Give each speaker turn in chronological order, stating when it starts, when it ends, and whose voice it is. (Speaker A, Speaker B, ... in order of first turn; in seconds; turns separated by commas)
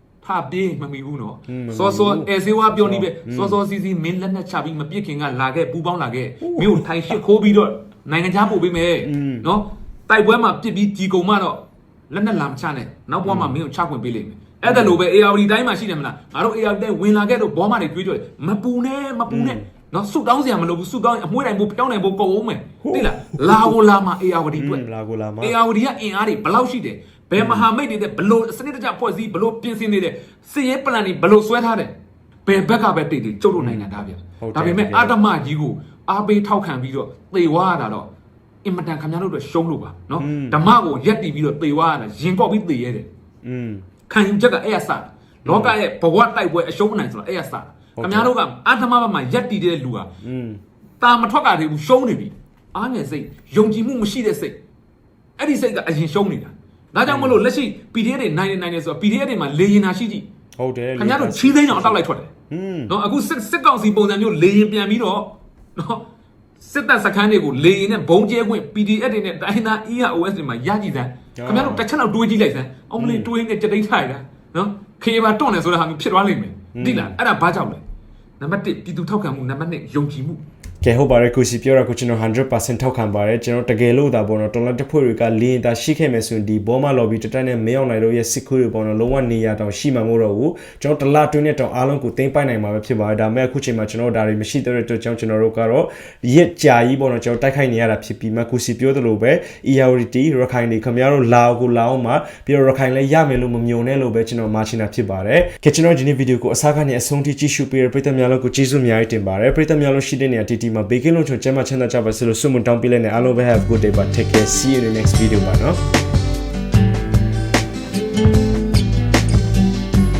Speaker A: 0.2-24.8, Speaker B: 1.5-3.6, Speaker B: 6.4-6.8, Speaker B: 9.0-9.5, Speaker B: 13.3-13.5, Speaker B: 14.6-15.0, Speaker B: 19.3-19.6, Speaker B: 22.9-23.8, Speaker B: 24.6-25.6, Speaker A: 25.4-31.9, Speaker B: 27.4-27.7, Speaker A: 32.5-38.1, Speaker B: 33.6-35.2, Speaker A: 38.6-43.1, Speaker B: 40.2-40.6, Speaker B: 43.4-43.9, Speaker A: 44.1-50.1, Speaker B: 45.5-45.8, Speaker B: 48.0-48.3, Speaker B: 50.2-50.6, Speaker A: 51.0-54.6, Speaker A: 55.4-60.3, Speaker B: 57.1-57.4, Speaker B: 60.6-62.0, Speaker A: 61.0-62.3, Speaker B: 62.5-62.9, Speaker A: 62.9-66.1, Speaker A: 66.6-77.8, Speaker B: 71.4-71.8, Speaker B: 73.0-73.3, Speaker B: 76.8-77.2, Speaker A: 78.4-80.4, Speaker B: 80.8-115.8